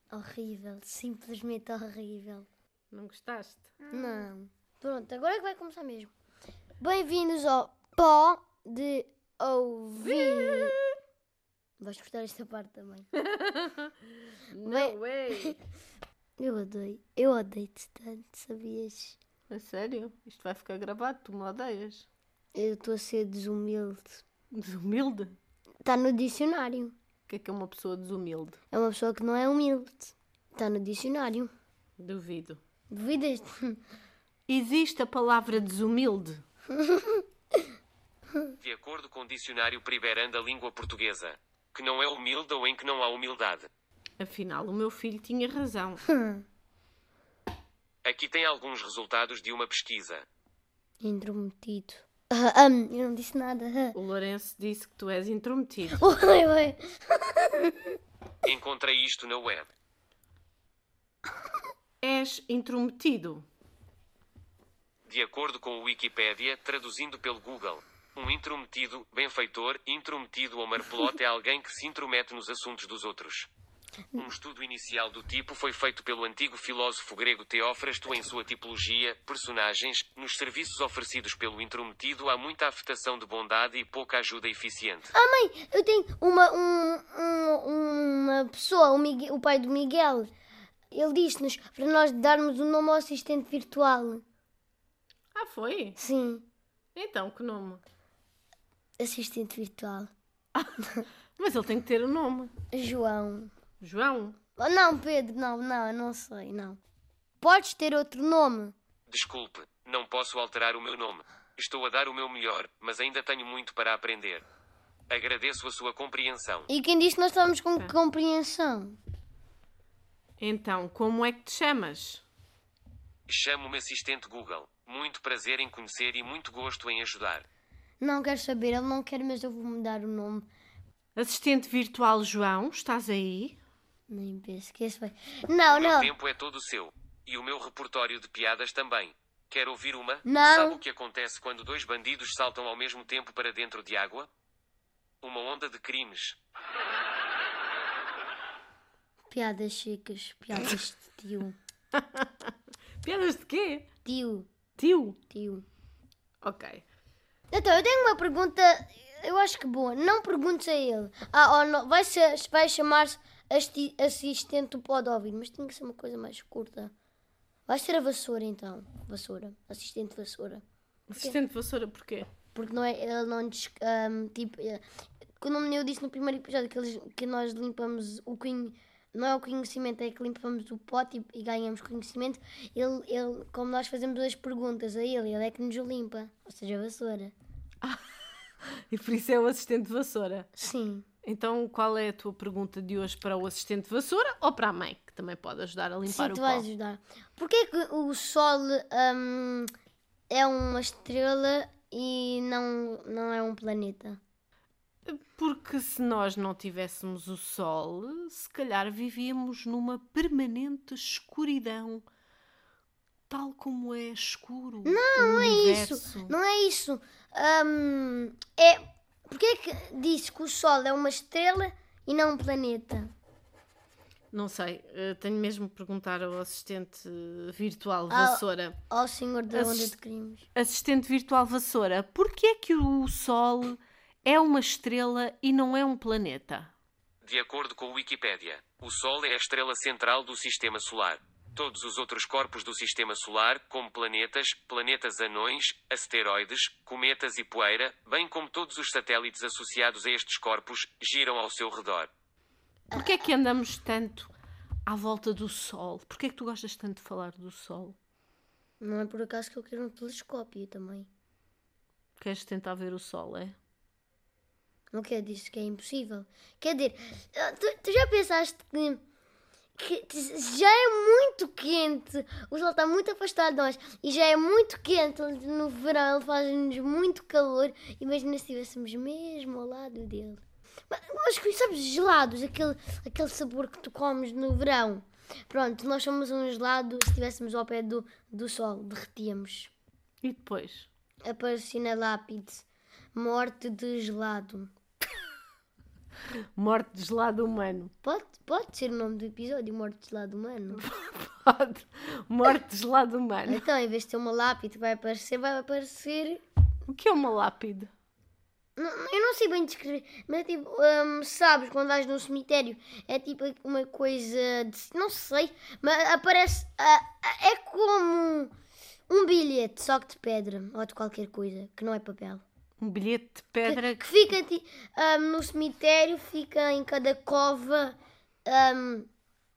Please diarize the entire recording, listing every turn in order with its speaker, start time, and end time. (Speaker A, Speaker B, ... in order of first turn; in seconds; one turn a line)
Speaker A: 0.1-2.5
Speaker B: 2.9-4.2
Speaker A: 3.9-6.1
Speaker A: 6.8-10.8
Speaker B: 10.0-10.8
Speaker A: 11.8-13.1
Speaker B: 13.3-15.6
Speaker A: 14.7-15.6
Speaker A: 16.4-19.2
Speaker B: 19.5-22.1
Speaker A: 22.5-24.2
Speaker B: 24.5-25.4
Speaker A: 25.8-26.9
Speaker B: 27.3-28.6
Speaker A: 28.7-31.5
Speaker B: 32.0-32.6
Speaker A: 32.9-33.8
Speaker B: 34.5-36.4
Speaker A: 36.7-37.2
Speaker C: 38.6-43.7
Speaker B: 44.2-46.0
Speaker A: 46.1-46.4
Speaker C: 48.0-50.2
Speaker A: 51.0-54.0
Speaker B: 53.9-56.0
Speaker A: 56.0-58.0
Speaker C: 58.4-59.7
Speaker B: 62.0-63.5
Speaker C: 65.1-73.5
Speaker C: 74.2-85.1
Speaker A: 85.1-90.3
Speaker A: 90.9-94.2
Speaker B: 95.3-96.0
Speaker A: 96.0-96.5
Speaker B: 96.9-97.8
Speaker A: 99.0-100.1
Speaker B: 101.4-102.5
Speaker A: 102.7-103.5
Speaker B: 103.8-104.4
Speaker A: 104.6-106.8
Speaker A: 107.4-108.7
Speaker C: 109.1-114.4
Speaker C: 115.1-116.7
Speaker A: 116.7-119.0
Speaker B: 120.4-122.2
Speaker C: 123.3-127.5
Speaker A: 128.0-130.5
Speaker B: 131.2-133.6
Speaker A: 134.1-136.1
Speaker C: 135.7-144.3
Speaker A: 140.2-140.8
Speaker C: 145.2-146.4
Speaker A: 149.3-151.6
Speaker B: 151.9-152.5
Speaker B: 153.0-153.9
Speaker A: 154.0-154.5
Speaker B: 154.8-155.2
Speaker A: 155.3-155.7
Speaker B: 156.4-156.8
Speaker A: 157.5-166.9
Speaker A: 167.7-170.6
Speaker B: 171.1-172.3
Speaker A: 172.5-174.8
Speaker A: 175.4-187.3
Speaker B: 188.9-190.5
Speaker A: 190.6-191.1
Speaker B: 191.2-196.6
Speaker A: 196.1-199.7
Speaker A: 200.3-204.2
Speaker B: 205.1-212.0
Speaker B: 213.3-216.3
Speaker A: 214.8-223.1
Speaker B: 224.3-228.8
Speaker A: 228.1-230.4
Speaker B: 229.5-229.9
Speaker B: 230.5-236.7
Speaker C: 237.2-252.1
Speaker B: 252.9-254.3
Speaker B: 254.8-258.0
Speaker A: 258.8-261.1
Speaker B: 262.2-263.6
Speaker A: 264.9-269.0
Speaker A: 269.8-289.7
Speaker B: 290.2-290.9
Speaker A: 291.2-294.7
Speaker B: 296.6-297.9
Speaker A: 298.0-300.8
Speaker B: 300.8-303.6
Speaker A: 303.4-306.4
Speaker B: 306.9-307.9
Speaker A: 308.8-318.5
Speaker A: 319.1-322.4
Speaker B: 322.8-324.0
Speaker A: 323.6-329.1